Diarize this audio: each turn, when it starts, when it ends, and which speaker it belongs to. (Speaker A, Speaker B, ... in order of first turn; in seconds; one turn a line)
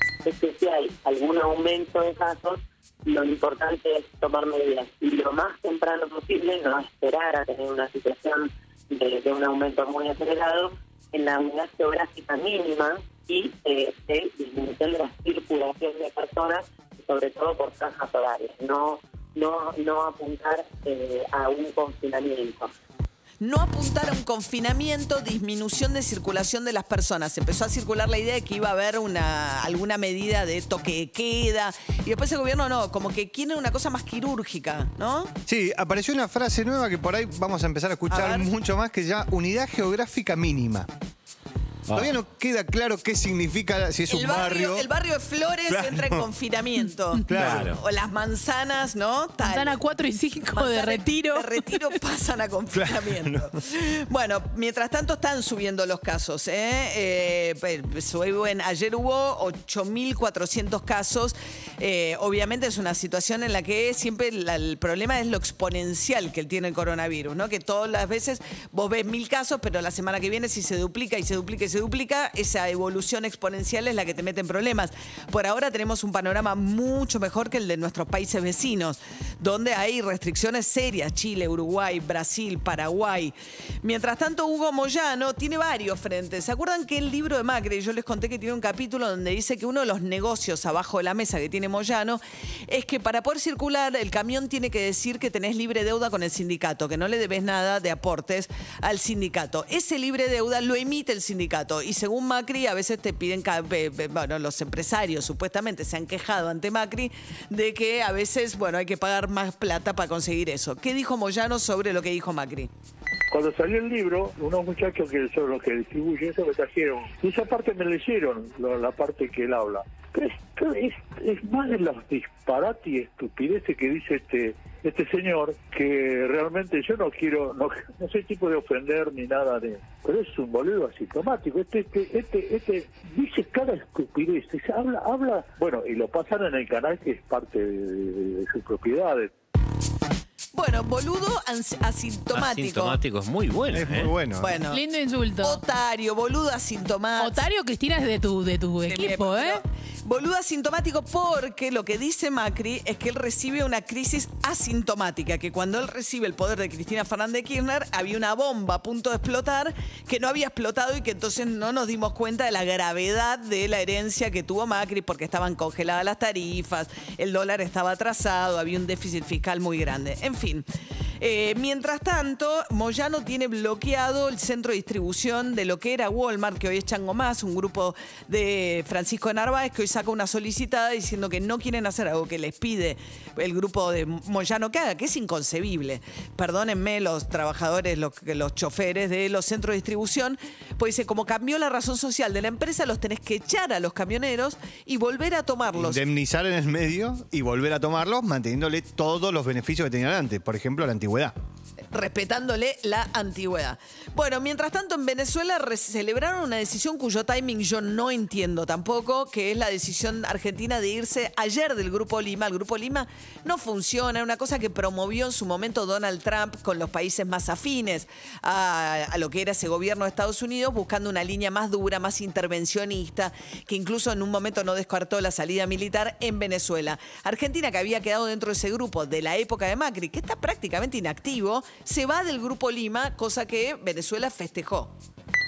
Speaker A: 0.2-22.7
Speaker B: 23.4-35.3
Speaker C: 35.5-40.9
Speaker B: 38.1-38.5
Speaker C: 41.9-44.9
Speaker B: 44.1-49.8
Speaker C: 45.7-46.3
Speaker C: 47.3-47.7
Speaker D: 47.3-47.8
Speaker E: 49.4-51.6
Speaker B: 50.5-112.7
Speaker C: 52.8-53.5
Speaker F: 113.3-139.3
Speaker B: 140.6-143.0
Speaker D: 142.3-144.1
Speaker C: 143.7-144.6
Speaker B: 144.4-144.8
Speaker E: 144.7-145.6
Speaker B: 145.4-147.4
Speaker E: 147.2-149.6
Speaker B: 148.9-170.7
Speaker B: 171.2-196.0
Speaker C: 195.8-201.3
Speaker B: 201.9-234.9